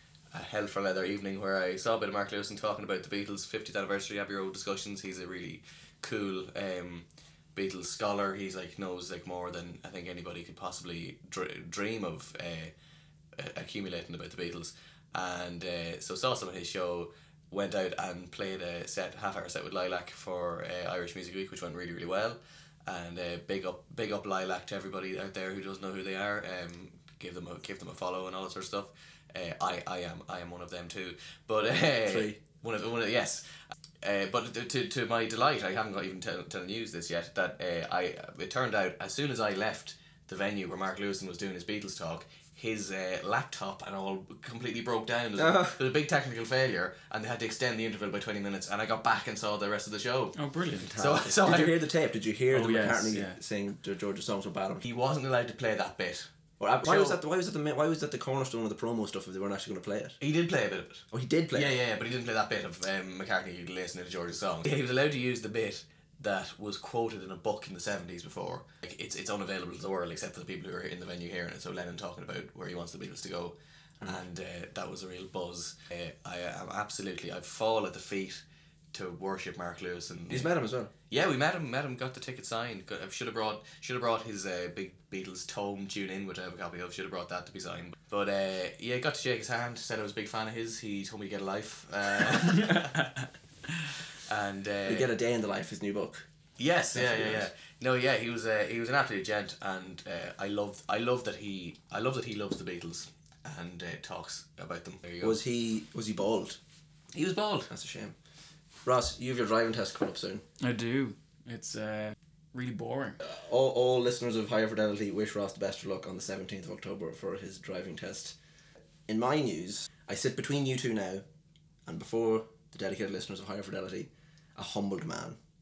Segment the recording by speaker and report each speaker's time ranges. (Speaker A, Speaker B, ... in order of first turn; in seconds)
Speaker A: 0.3-12.7, 13.3-50.4, 50.9-51.8, 54.8-56.3, 56.8-57.2, 60.2-80.5, 81.1-93.0, 94.1-95.1, 96.6-105.4, 107.1-107.7
Speaker B: 32.0-32.4, 45.4-45.8, 50.8-54.9, 56.6-60.2, 61.1-61.8, 80.3-80.9, 94.8-96.3, 96.9-97.5, 105.2-106.6, 107.7-108.1, 108.8-110.4, 113.2-118.4, 119.1-121.2, 121.8-125.4
Speaker C: 50.3-50.9, 52.5-53.4, 110.6-113.2